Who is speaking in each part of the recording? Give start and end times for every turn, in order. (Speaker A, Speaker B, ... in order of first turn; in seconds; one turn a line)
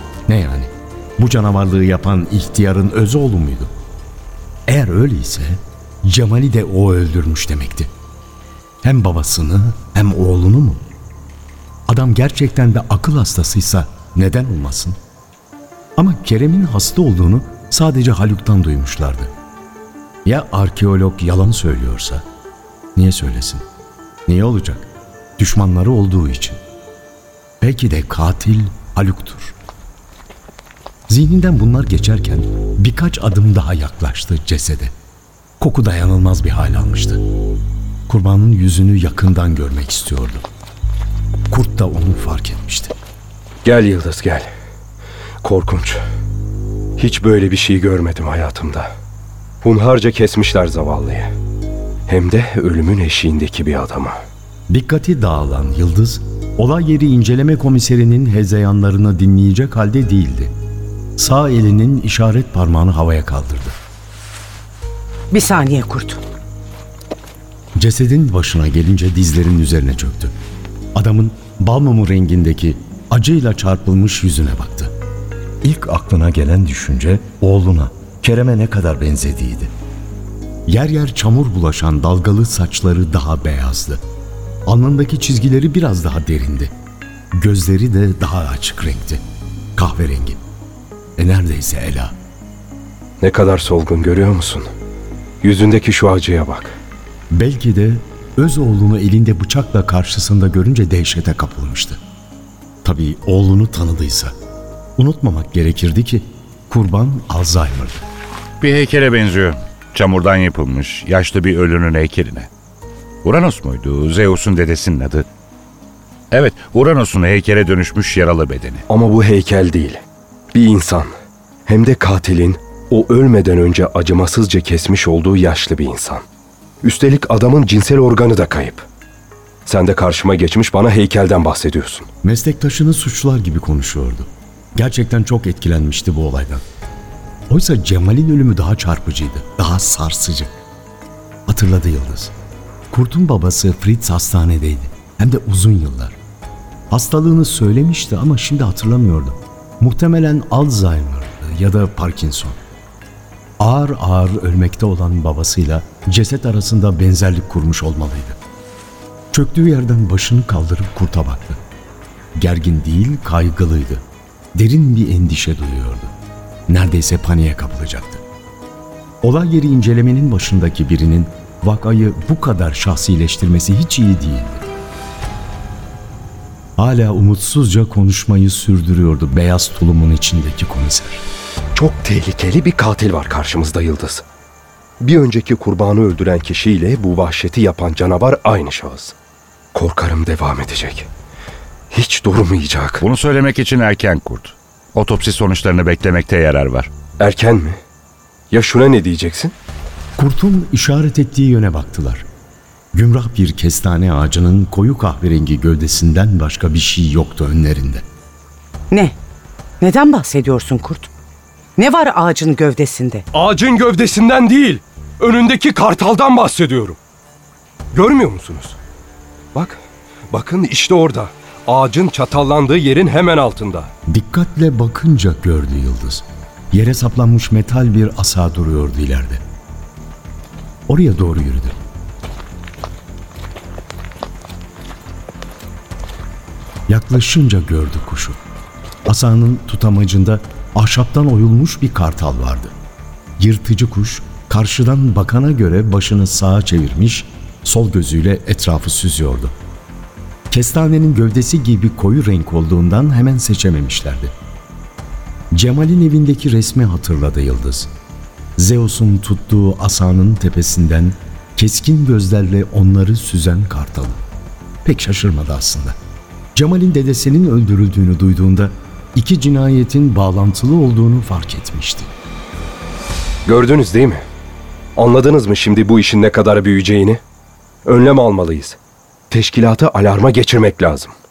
Speaker A: 0.3-3.7
Speaker A: 4.7-7.9
Speaker A: 8.8-10.8
Speaker A: 11.9-15.0
Speaker A: 16.0-19.3
Speaker A: 20.2-22.2
Speaker A: 22.9-23.6
Speaker A: 24.3-26.6
Speaker A: 27.6-29.5
Speaker A: 31.1-34.9
Speaker A: 35.6-37.2
Speaker A: 38.1-40.4
Speaker A: 41.5-42.9
Speaker B: 43.6-44.5
Speaker B: 45.4-46.0
Speaker B: 47.0-48.9
Speaker B: 49.6-51.3
Speaker B: 52.1-54.2
Speaker A: 54.7-60.5
Speaker A: 61.2-63.8
Speaker C: 65.3-66.2
Speaker A: 67.8-70.4
Speaker A: 70.9-74.9
Speaker A: 75.6-79.7
Speaker A: 80.7-84.0
Speaker A: 84.7-86.7
Speaker A: 87.3-89.2
Speaker A: 89.8-90.4
Speaker A: 91.2-92.2
Speaker B: 93.2-94.7
Speaker B: 95.4-96.8
Speaker A: 97.3-102.0
Speaker A: 102.8-104.3
Speaker A: 105.0-108.0
Speaker D: 108.6-112.5
Speaker D: 113.2-115.2
Speaker D: 116.3-118.8
Speaker B: 118.9-120.0
Speaker B: 120.5-121.1
Speaker B: 121.7-126.2
Speaker B: 126.8-128.8
Speaker B: 129.7-132.1
Speaker A: 132.2-136.6
Speaker A: 137.5-140.6
Speaker A: 141.5-142.3
Speaker A: 142.9-146.2
Speaker A: 146.9-152.6
Speaker A: 153.6-158.4
Speaker A: 159.3-161.6
Speaker A: 162.4-164.0
Speaker A: 164.5-166.1
Speaker A: 166.7-168.2
Speaker A: 169.2-174.6
Speaker A: 176.8-181.2
Speaker B: 181.7-184.2
Speaker B: 185.0-189.1
Speaker B: 189.7-191.1
Speaker B: 191.9-193.0
Speaker D: 193.0-196.9
Speaker B: 197.2-197.8
Speaker B: 198.5-199.5
Speaker A: 200.2-202.2
Speaker A: 202.9-208.0
Speaker C: 208.9-209.2
Speaker C: 209.8-211.1
Speaker C: 211.8-213.2
Speaker B: 213.3-217.0
Speaker B: 217.9-218.8
Speaker B: 219.5-223.9
Speaker A: 224.1-229.4
Speaker A: 230.9-231.8
Speaker A: 236.9-238.4
Speaker A: 239.1-242.7
Speaker A: 243.4-249.5
Speaker A: 250.5-254.3
Speaker A: 255.5-257.9
Speaker A: 258.6-264.2
Speaker A: 264.8-266.0
Speaker A: 266.5-272.1
Speaker B: 273.4-274.2
Speaker B: 274.9-277.2
Speaker B: 277.8-278.8
Speaker B: 279.3-281.1